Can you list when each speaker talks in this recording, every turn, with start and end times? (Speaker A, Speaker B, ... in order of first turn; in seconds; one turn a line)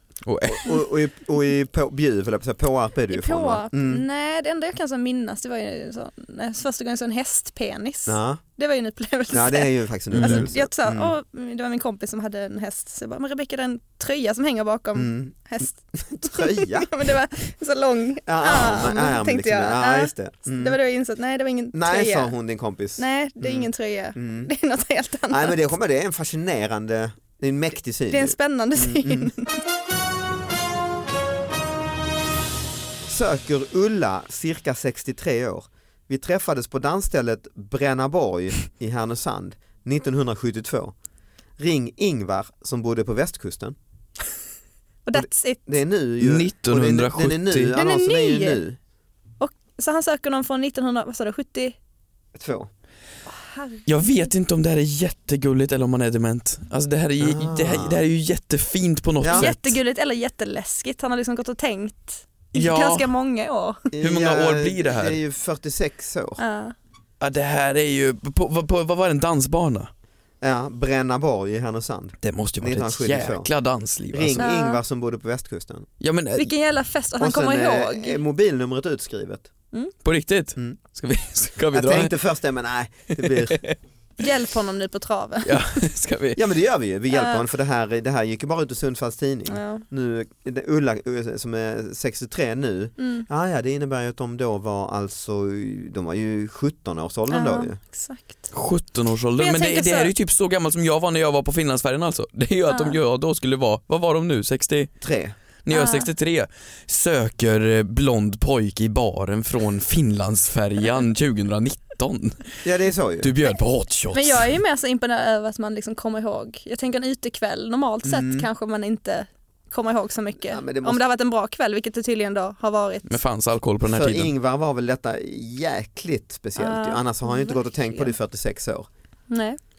Speaker A: 0.2-0.7
Speaker B: 0.5-4.0
Speaker C: 3.1-22.3
Speaker B: 8.1-8.4
Speaker B: 9.3-11.1
Speaker A: 10.1-10.5
Speaker B: 14.9-16.9
Speaker B: 18.2-20.8
Speaker B: 21.7-24.5
Speaker C: 23.0-25.7
Speaker B: 25.3-29.3
Speaker C: 28.1-29.6
Speaker B: 33.0-40.9
Speaker B: 41.6-43.8
Speaker C: 45.0-45.7
Speaker B: 45.1-48.8
Speaker A: 46.2-47.7
Speaker C: 47.7-48.6
Speaker C: 49.4-51.8
Speaker B: 52.3-52.7
Speaker C: 53.3-54.2
Speaker A: 53.9-59.8
Speaker B: 57.2-58.0
Speaker B: 59.2-59.5
Speaker C: 59.3-63.9
Speaker A: 62.5-63.1
Speaker B: 63.9-66.4
Speaker A: 64.0-65.2
Speaker C: 66.4-66.7
Speaker A: 67.2-69.9
Speaker B: 70.4-73.5
Speaker A: 72.2-74.5
Speaker B: 74.1-75.9
Speaker C: 74.4-74.8
Speaker A: 76.0-76.5
Speaker C: 76.3-78.2
Speaker B: 77.2-79.5
Speaker A: 80.0-82.1
Speaker B: 81.7-83.6
Speaker A: 83.1-83.8
Speaker C: 84.2-85.6
Speaker A: 85.4-86.4
Speaker B: 86.3-97.8
Speaker C: 87.1-87.4
Speaker C: 89.5-89.8
Speaker C: 93.0-93.2
Speaker C: 97.3-98.5
Speaker A: 98.5-104.9
Speaker C: 99.4-100.1
Speaker C: 102.7-103.0
Speaker B: 105.0-105.3
Speaker A: 105.6-112.6
Speaker C: 105.7-106.1
Speaker B: 112.6-113.3
Speaker A: 113.2-114.5
Speaker C: 114.1-123.2
Speaker B: 118.0-118.5
Speaker B: 120.4-121.0
Speaker A: 123.1-124.3
Speaker B: 123.9-128.9
Speaker C: 126.6-128.1
Speaker C: 129.3-129.6